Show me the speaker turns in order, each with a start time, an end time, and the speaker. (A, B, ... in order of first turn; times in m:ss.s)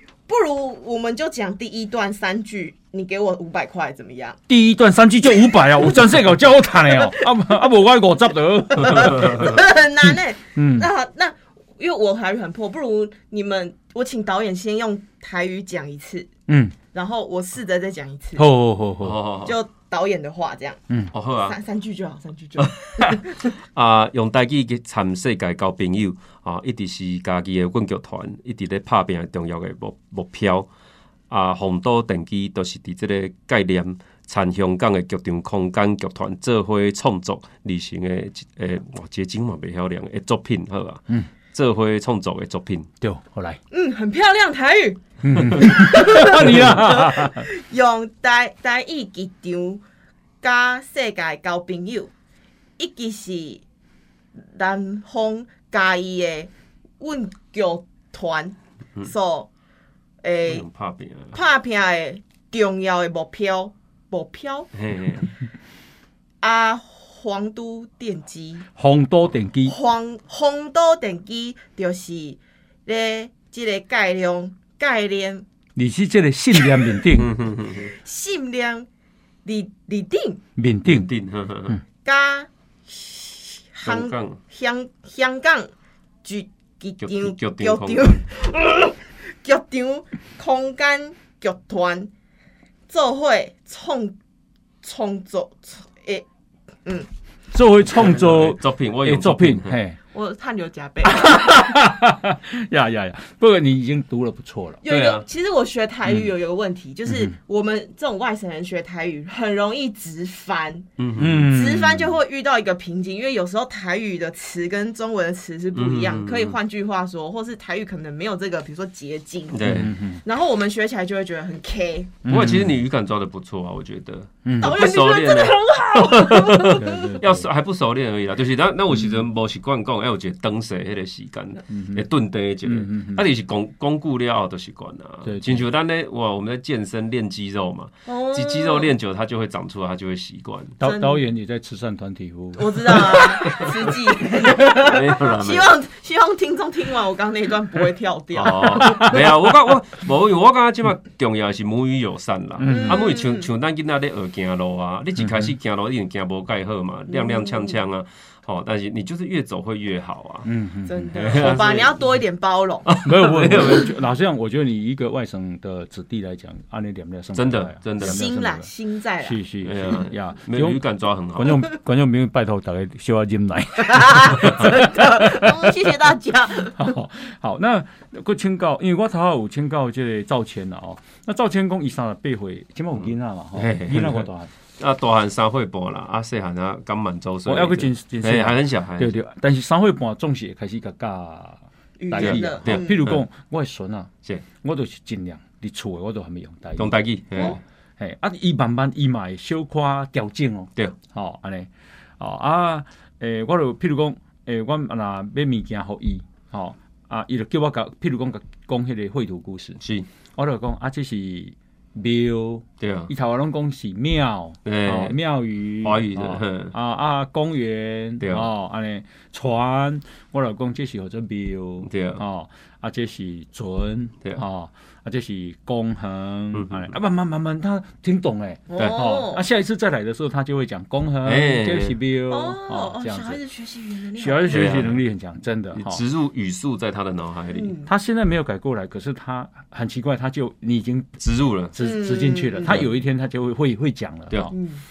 0:00.3-0:04.4 A
0:04.5-0:09.6 B
0:06.8-0:07.4 A
0:08.8-0:16.3 A
0:10.5-0:10.9 B
0:16.5-0:16.8 B
0:16.9-0:18.4 A
0:18.4-0:19.2 B
0:19.0-0:19.6 C
0:19.4-0:20.8 A
0:21.1-0:21.6 C
0:21.4-0:23.5 A
0:22.6-0:30.7 C
0:31.3-0:42.9 C
0:43.0-0:43.6 B
0:43.7-0:49.8 A
0:45.2-0:47.5 B
0:50.4-0:52.1 A
0:52.8-0:53.6 A
0:54.4-0:59.5 A
1:00.2-1:00.6 A
1:00.4-1:01.4 C
1:01.3-1:04.7 A
1:04.7-1:05.3 C
1:06.4-1:08.6 A
1:08.8-1:09.7 B
1:09.7-1:15.4 A
1:15.8-1:17.3 B
1:16.6-1:16.9 A
1:17.2-1:17.9 C
1:17.8-1:18.9 A
1:19.4-1:20.4 A
1:20.6-1:21.1 B
1:20.8-1:21.8 C
1:22.0-1:25.7 A
1:23.8-1:24.4 C
1:26.2-1:32.1 A
1:27.0-1:28.2 C
1:32.9-1:34.2 A
1:34.8-1:36.2 A
1:37.5-1:40.0 B
1:37.9-1:39.8 C
1:40.1-1:41.6 A
1:41.0-1:44.8 B
1:44.8-1:50.9 A
1:44.8-1:45.2 C
1:47.1-1:47.3 B
1:51.0-1:51.5 C
1:51.2-1:52.1 B
1:51.4-1:59.7 A
1:55.7-1:56.6 C
1:59.5-1:59.9 C
1:59.6-2:00.2 B
2:00.2-2:02.2 A
2:02.2-2:02.8 B
2:02.3-2:20.8 C
2:04.4-2:04.8 B
2:04.6-2:07.1 A
2:06.7-2:07.4 B
2:08.9-2:09.2 B
2:11.7-2:12.0 B
2:12.6-2:13.2 B
2:15.2-2:15.6 B
2:18.1-2:18.9 A
2:20.8-2:24.0 B
2:20.8-2:21.2 A
2:22.6-2:29.2 A
2:23.5-2:23.7 C
2:24.4-2:25.7 C
2:28.3-2:40.5 C
2:28.6-2:29.2 B
2:32.6-2:33.0 B
2:32.7-2:33.5 A
2:35.2-2:35.5 B
2:37.1-2:37.8 A
2:40.4-2:41.5 B
2:40.9-2:43.0 A
2:41.1-2:42.0 C
2:42.8-2:43.9 C
2:43.0-2:48.7 B
2:47.3-2:48.2 C
2:48.0-2:49.4 A
2:49.2-2:50.8 B
2:49.6-2:51.6 C
2:51.3-2:55.8 B
2:53.9-2:56.9 A
2:56.7-3:04.5 B
3:03.0-3:04.2 C
3:04.8-3:09.1 C
3:07.4-3:14.1 B
3:12.0-3:13.0 A
3:12.2-3:13.2 C
3:14.6-3:29.8 B
3:16.8-3:17.6 C
3:29.8-3:30.1 C
3:30.4-3:53.4 B
3:32.8-3:33.1 C
3:34.6-3:35.1 C
3:35.8-3:36.7 C
3:38.2-3:38.5 C
3:41.8-3:42.2 C
3:46.5-3:46.9 C
3:48.7-3:49.4 A
3:48.8-3:49.0 C
3:51.2-3:52.0 C
3:52.3-3:54.8 A
3:54.2-3:56.0 B
3:54.5-3:55.0 C
3:55.7-3:57.7 C
3:57.5-3:57.9 A
3:57.8-4:01.2 B
4:01.2-4:01.7 C
4:01.7-4:04.6 B
4:01.8-4:02.8 A
4:04.5-4:04.8 A